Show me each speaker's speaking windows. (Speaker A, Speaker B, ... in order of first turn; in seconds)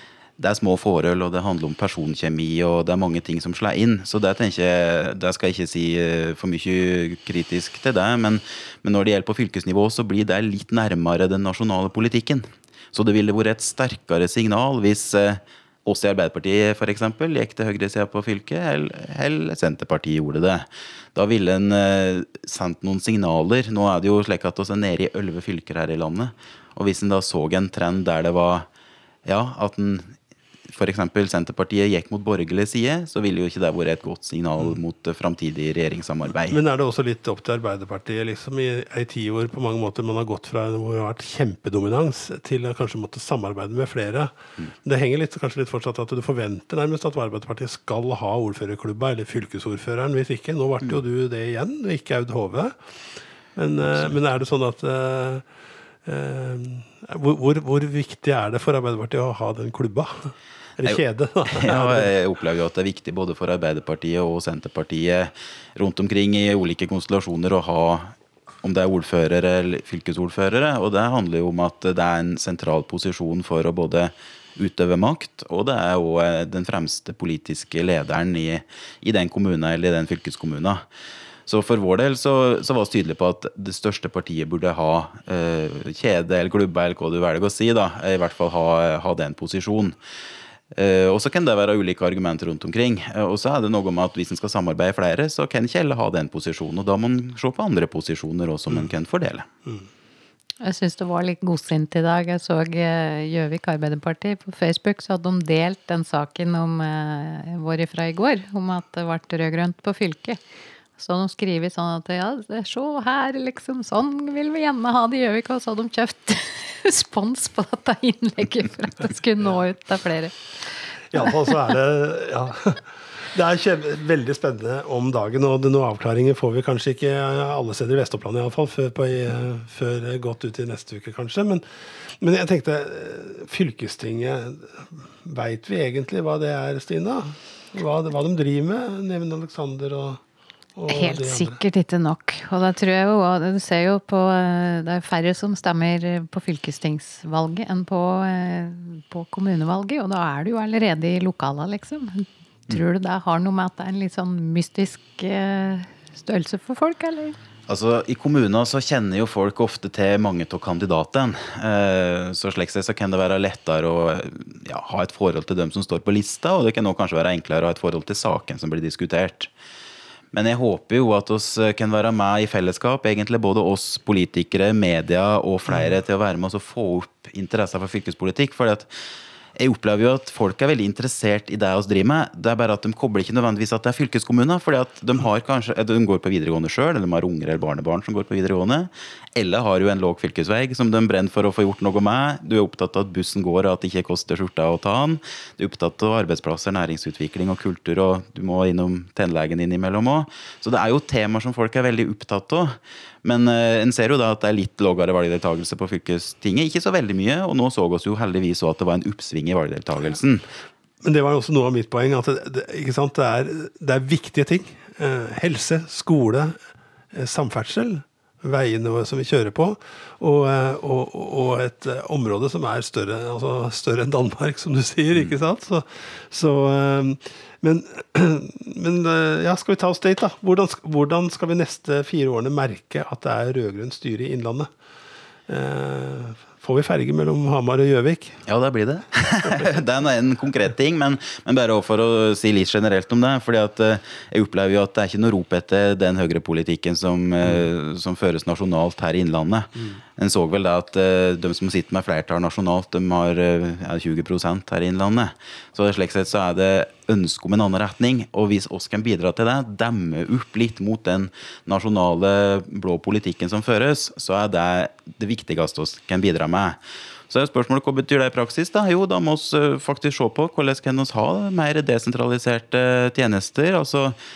Speaker A: 0.4-28.7, 29.2-30.1, 30.7-36.6, 53.9-54.1, 60.8-80.8, 81.5-90.0, 90.7-99.5, 157.7-169.5, 170.3-178.9, 179.6-210.5, 238.4-274.2
Speaker B: 36.5-52.8, 53.5-55.4, 56.0-62.1, 121.1-140.2, 140.8-141.6, 211.0-216.6, 217.1-234.7, 235.5-238.4
Speaker C: 100.6-110.4, 111.0-121.3, 140.9-157.3